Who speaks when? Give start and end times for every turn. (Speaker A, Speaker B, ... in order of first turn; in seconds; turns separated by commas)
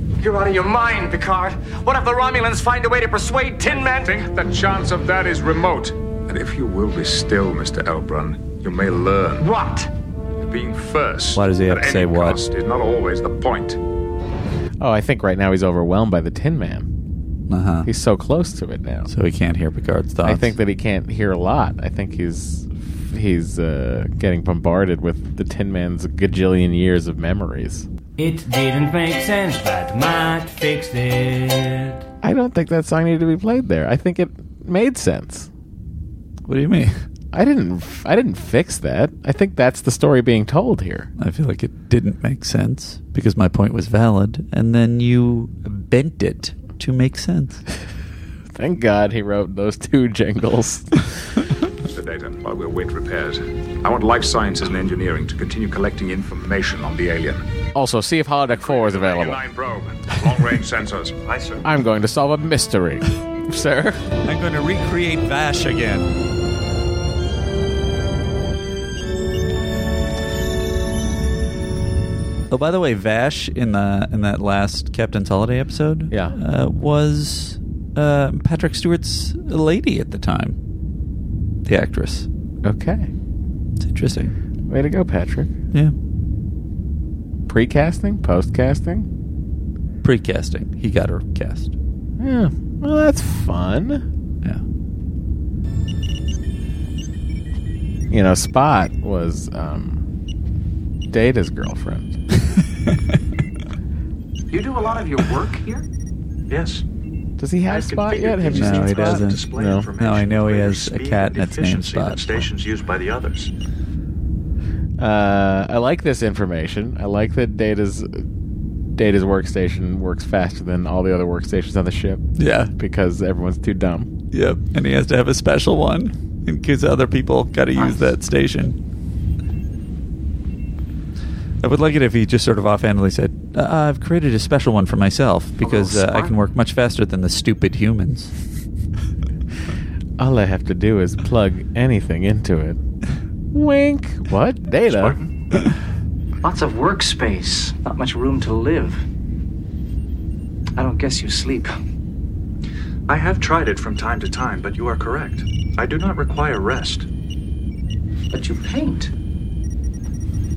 Speaker A: 0.2-3.5, Speaker B: 3.7-9.5, Speaker A: 9.5-9.8, Speaker B: 10.4-13.8, Speaker C: 11.3-12.4, Speaker D: 14.8-16.9, Speaker C: 17.5-17.9, Speaker D: 17.8-19.1, Speaker C: 19.1-20.6, Speaker D: 20.2-27.9, Speaker E: 28.2-32.0, Speaker D: 32.2-35.5, Speaker C: 36.5-37.0, Speaker D: 37.3-41.1, Speaker C: 41.2-47.6, Speaker D: 48.5-51.1, Speaker B: 51.9-57.4, Speaker D: 57.7-59.4, Speaker B: 58.5-61.2, Speaker F: 61.2-61.6, Speaker D: 61.6-64.0, Speaker C: 64.2-66.1, Speaker C: 72.5-80.6, Speaker D: 76.1-76.3, Speaker C: 81.6-82.3, Speaker D: 82.6-83.1, Speaker C: 83.8-84.3, Speaker D: 84.7-85.5, Speaker D: 87.5-89.1, Speaker C: 90.0-91.7, Speaker D: 92.2-94.0, Speaker D: 98.1-100.0, Speaker D: 101.1-102.2, Speaker A: 104.5-105.8, Speaker F: 106.5-106.8, Speaker D: 107.4-109.9, Speaker F: 107.7-113.5, Speaker C: 108.5-112.5, Speaker D: 115.0-118.3, Speaker D: 118.9-122.2, Speaker C: 122.4-122.7, Speaker D: 122.8-124.1, Speaker C: 124.3-128.8, Speaker C: 131.6-138.3, Speaker A: 135.6-136.3, Speaker D: 140.2-142.8, Speaker D: 143.5-145.2, Speaker F: 144.9-145.3, Speaker A: 146.4-149.0, Speaker A: 150.8-151.7, Speaker F: 153.1-157.1, Speaker A: 158.3-159.1